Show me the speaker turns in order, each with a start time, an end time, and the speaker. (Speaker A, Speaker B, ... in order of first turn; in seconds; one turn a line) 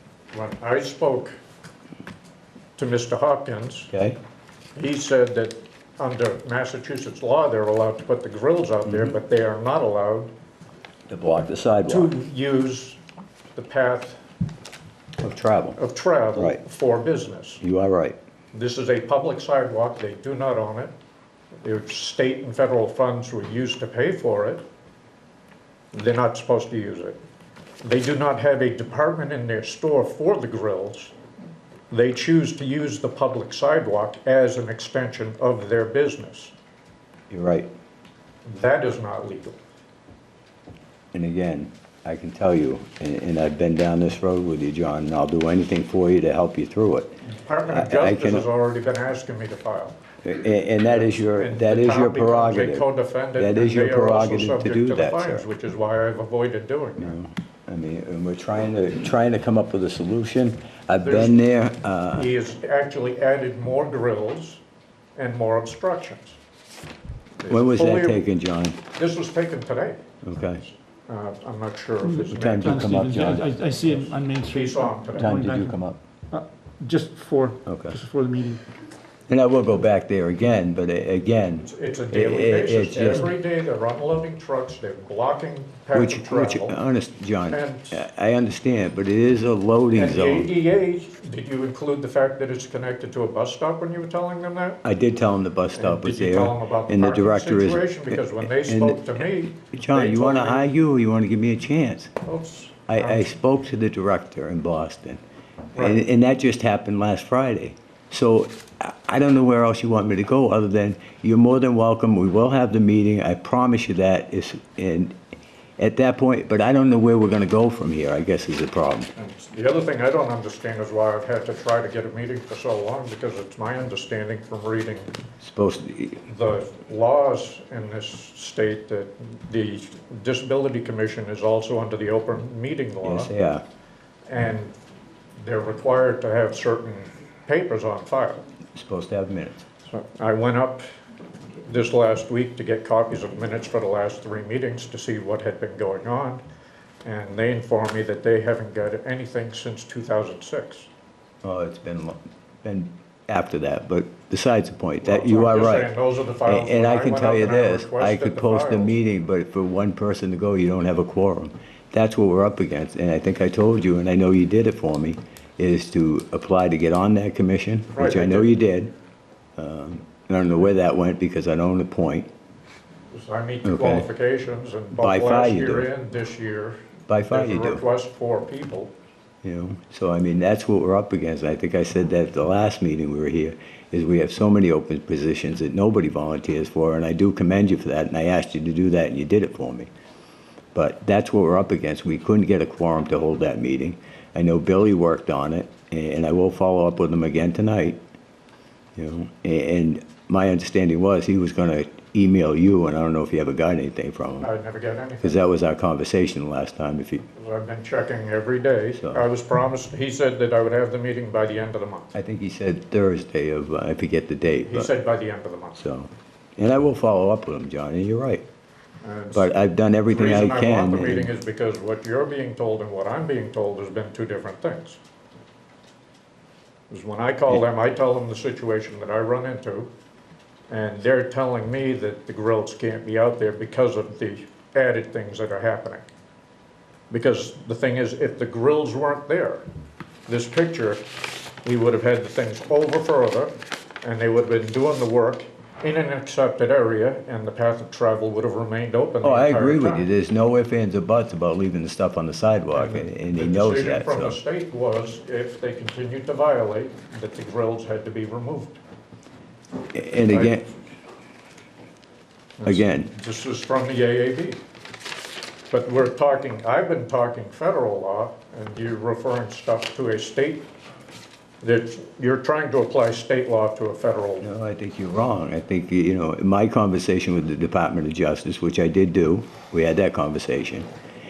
Speaker A: 0.3-1.3
Speaker A: 2.8-3.9
Speaker B: 3.9-4.2
Speaker A: 4.7-10.3
Speaker B: 8.9-9.1
Speaker B: 11.1-12.1
Speaker A: 11.9-13.0
Speaker A: 13.6-14.2
Speaker B: 15.2-15.8
Speaker A: 15.8-17.6
Speaker B: 16.4-16.6
Speaker B: 17.6-18.2
Speaker A: 18.5-20.9
Speaker A: 21.6-24.6
Speaker A: 25.9-27.2
Speaker A: 27.8-31.1
Speaker A: 31.9-36.5
Speaker B: 37.3-37.7
Speaker A: 38.5-39.6
Speaker B: 41.1-48.5
Speaker A: 47.3-50.0
Speaker B: 50.2-55.4
Speaker A: 50.8-57.1
Speaker B: 57.0-62.3
Speaker A: 61.0-61.4
Speaker A: 62.1-64.6
Speaker A: 65.2-66.4
Speaker A: 67.4-68.2
Speaker B: 67.5-68.8
Speaker A: 69.0-70.0
Speaker B: 70.2-70.6
Speaker A: 70.7-75.4
Speaker C: 72.2-78.6
Speaker B: 72.2-73.4
Speaker B: 75.1-76.0
Speaker B: 77.6-78.0
Speaker B: 79.3-83.3
Speaker A: 81.6-86.8
Speaker B: 85.9-90.5
Speaker A: 87.5-88.0
Speaker A: 90.0-94.8
Speaker B: 94.8-102.1
Speaker A: 95.7-100.7
Speaker A: 102.2-103.2
Speaker B: 102.9-105.2
Speaker A: 105.7-106.0
Speaker B: 105.8-115.2
Speaker B: 115.8-119.1
Speaker A: 119.2-125.1
Speaker B: 125.4-126.2
Speaker A: 126.3-133.3
Speaker B: 133.0-133.6
Speaker A: 134.3-134.7
Speaker A: 135.4-138.4
Speaker B: 138.7-139.6
Speaker A: 139.9-140.8
Speaker A: 141.6-146.4
Speaker A: 147.0-150.9
Speaker B: 151.4-155.9
Speaker A: 155.0-158.9
Speaker B: 156.4-168.9
Speaker A: 167.9-168.5
Speaker B: 169.6-172.3
Speaker A: 173.1-178.9
Speaker B: 173.6-174.1
Speaker B: 175.0-175.9
Speaker B: 177.1-177.8
Speaker B: 179.4-189.9
Speaker B: 190.7-198.0
Speaker B: 198.9-204.5
Speaker A: 204.4-205.4
Speaker B: 205.2-207.3
Speaker A: 207.3-212.1
Speaker B: 212.1-214.9
Speaker A: 214.7-215.8
Speaker B: 215.8-218.4
Speaker A: 219.0-219.5
Speaker B: 219.3-221.3
Speaker A: 220.1-225.0
Speaker A: 226.9-229.9
Speaker A: 230.7-236.0
Speaker A: 237.1-239.6
Speaker A: 240.3-241.0
Speaker A: 241.6-250.1
Speaker B: 249.2-254.4
Speaker A: 252.7-258.8
Speaker B: 259.9-260.7
Speaker A: 260.2-260.7
Speaker A: 262.6-264.6
Speaker B: 262.6-263.1
Speaker A: 265.7-270.7
Speaker A: 271.6-274.4
Speaker B: 274.4-280.9